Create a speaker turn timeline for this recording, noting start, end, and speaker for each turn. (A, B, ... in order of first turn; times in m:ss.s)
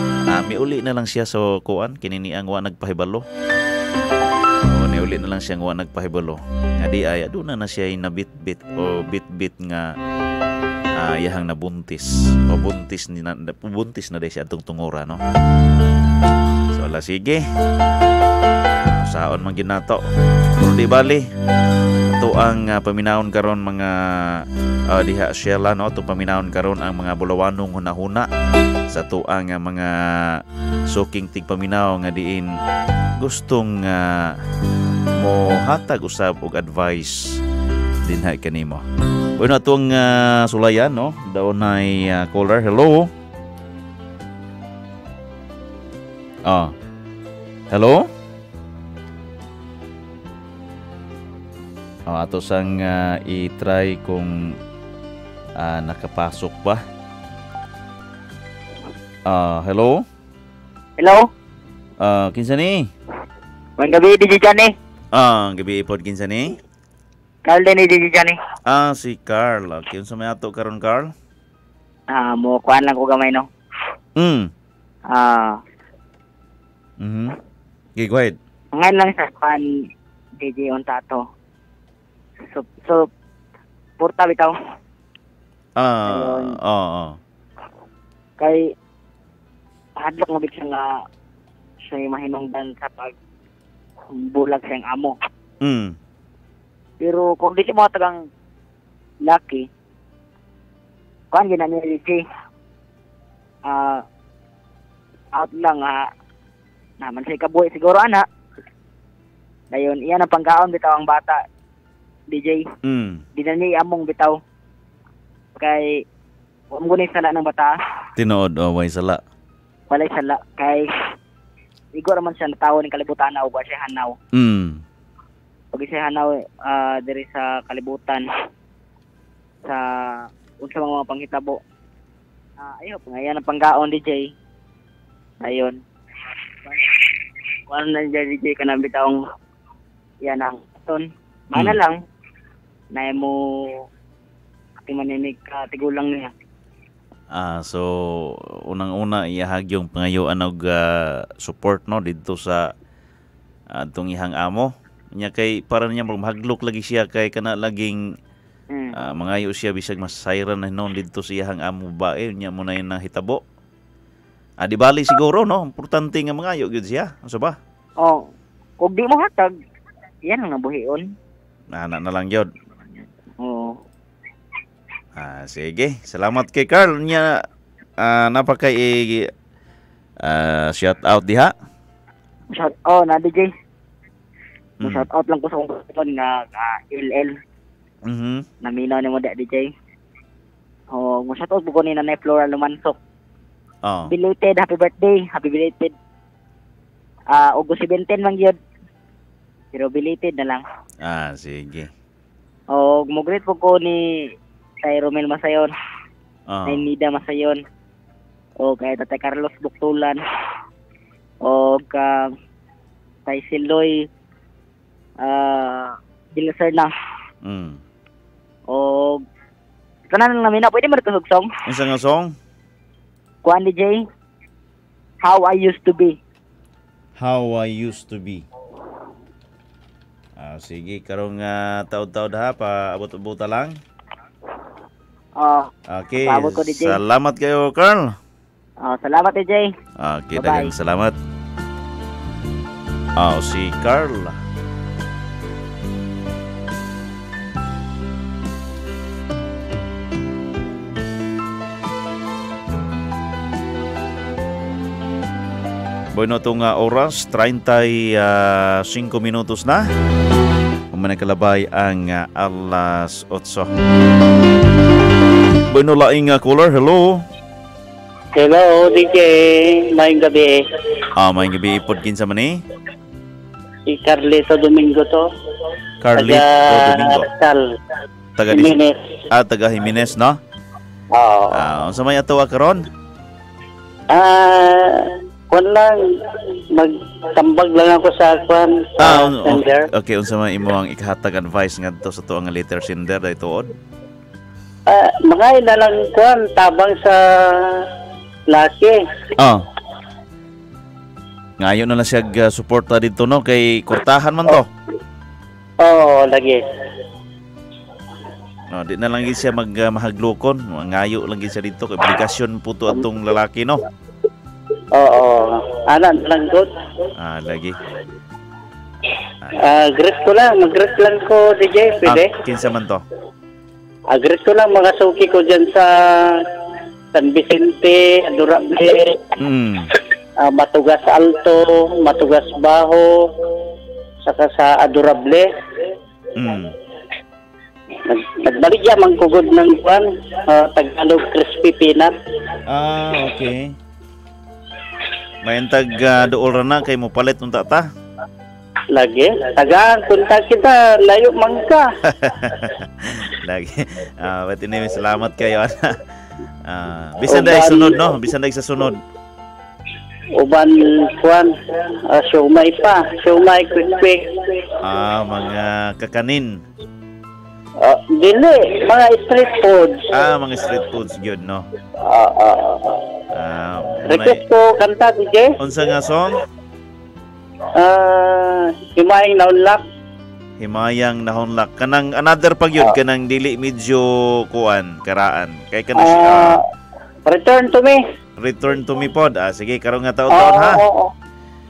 0:00.3-0:03.2 A
0:04.6-0:09.9 A
0:11.0-0:15.2 A
0:16.7-0:17.4 A
0:18.8-0:20.0 A
0:20.6-0:21.3 A
0:22.2-0:28.3 A
0:28.9-0:32.5 A
0:33.2-0:34.4 A
0:35.2-0:37.4 A
0:38.0-0:38.8 A
0:39.4-0:43.1 A
0:46.5-0:46.7 A
0:47.7-0:48.1 A
0:52.1-0:54.6 A
0:55.6-0:56.8 A
0:59.3-1:00.0 A
1:01.0-1:01.3 B
1:02.0-1:02.9 A
1:03.8-1:04.8 B
1:05.1-1:06.6 A
1:07.4-1:08.4 B
1:08.7-1:11.1 A
1:12.1-1:13.5 B
1:14.2-1:14.5 A
1:15.1-1:15.6 B
1:17.0-1:17.4 A
1:18.0-1:18.4 A
1:18.8-1:19.6 B
1:20.4-1:21.2 B
1:22.5-1:23.1 B
1:24.0-1:24.5 B
1:25.8-1:27.2 A
1:26.1-1:26.5 B
1:28.4-1:28.7 B
1:30.0-1:31.0 B
1:31.9-1:33.1 B
1:34.1-1:35.2 B
1:35.6-1:36.0 A
1:37.0-1:38.2 B
1:39.2-1:39.7 B
1:41.3-1:42.2 B
1:43.7-1:44.0 B
1:45.3-1:46.1 B
1:47.0-1:48.2 B
1:49.7-1:51.4 B
1:52.3-1:52.7 B
1:52.8-1:53.2 A
1:53.4-1:54.4 B
1:55.6-1:56.0 B
1:56.7-1:57.8 B
1:58.2-1:59.2 A
1:59.9-2:00.9 B
2:02.0-2:04.2 B
2:04.3-2:04.8 A
2:05.7-2:08.3 B
2:09.7-2:11.6 B
2:12.6-2:14.3 B
2:15.4-2:15.8 B
2:16.6-2:17.0 B
2:17.7-2:19.2 B
2:20.2-2:22.0 B
2:22.9-2:23.4 B
2:24.9-2:26.3 B
2:27.3-2:32.7 A
2:33.8-2:38.0 A
2:39.0-2:43.4 A
2:44.6-2:47.6 A
2:48.8-2:49.5 B
2:50.3-2:51.1 B
2:51.8-2:52.5 A
2:53.4-2:53.7 B
2:55.2-2:57.4 A
2:58.0-2:59.3 A
3:00.2-3:01.5 A
3:02.6-3:03.5 B
3:04.8-3:05.1 A
3:04.8-3:07.4 B
3:08.0-3:08.5 A
3:08.6-3:09.7 B
3:10.9-3:13.0 B
3:13.8-3:14.1 A
3:14.1-3:15.9 B
3:17.3-3:18.6 B
3:19.7-3:20.6 B
3:21.0-3:21.9 A
3:22.7-3:24.0 B
3:24.8-3:25.7 B
3:26.5-3:26.8 A
3:26.7-3:27.6 B
3:28.6-3:30.2 B
3:31.4-3:32.3 B
3:33.3-3:34.1 B
3:35.2-3:36.9 B
3:37.4-3:37.8 A
3:38.7-3:39.2 B
3:40.1-3:41.5 B
3:41.7-3:42.4 A
3:43.4-3:44.0 B
3:45.2-3:46.2 B
3:47.2-3:48.4 A
3:50.4-3:53.8 A
3:55.4-3:55.7 B
3:55.9-3:58.2 A
3:56.2-3:57.0 B
3:58.8-3:59.7 B
4:00.0-4:01.2 A
4:00.4-4:00.7 B
4:03.2-4:04.4 A
4:16.1-4:19.9 A
4:20.9-4:23.7 A
4:25.7-4:27.2 A
4:28.4-4:30.6 C
4:31.2-4:32.6 A
4:33.9-4:35.2 C
4:36.0-4:37.3 A
4:36.2-4:37.6 C
4:38.4-4:38.7 A
4:38.5-4:39.0 C
4:39.3-4:40.4 A
4:41.2-4:41.6 C
4:41.5-4:42.8 A
4:44.1-4:46.0 C
4:46.7-4:49.9 C
4:49.0-4:53.7 A
4:54.9-4:57.2 C
4:58.5-4:59.0 C
5:01.6-5:04.7 A
5:05.8-5:06.6 C
5:08.7-5:13.8 A
5:15.0-5:16.7 C
5:17.2-5:17.8 A
5:19.6-5:22.3 C
5:22.0-5:23.0 A
5:24.1-5:26.4 C
5:27.1-5:29.3 C
5:29.4-5:29.9 A
5:30.4-5:33.1 C
5:34.3-5:35.5 C
5:36.4-5:36.7 A
5:38.1-5:42.1 C
5:42.7-5:43.8 A
5:45.4-5:47.9 A
5:48.9-5:51.9 C
5:52.1-5:56.0 A
5:56.7-5:59.0 A
5:57.2-5:58.0 C
6:00.4-6:01.5 C
6:02.1-6:04.2 C
6:04.8-6:06.6 A
6:07.8-6:10.1 C
6:10.1-6:11.7 A
6:12.0-6:13.0 C
6:13.3-6:14.4 A
6:14.1-6:15.5 C
6:15.6-6:16.4 A
6:17.8-6:19.8 C
6:20.6-6:26.6 A
6:26.0-6:26.6 C
6:27.3-6:28.0 C
6:28.4-6:30.8 A
6:30.3-6:31.1 C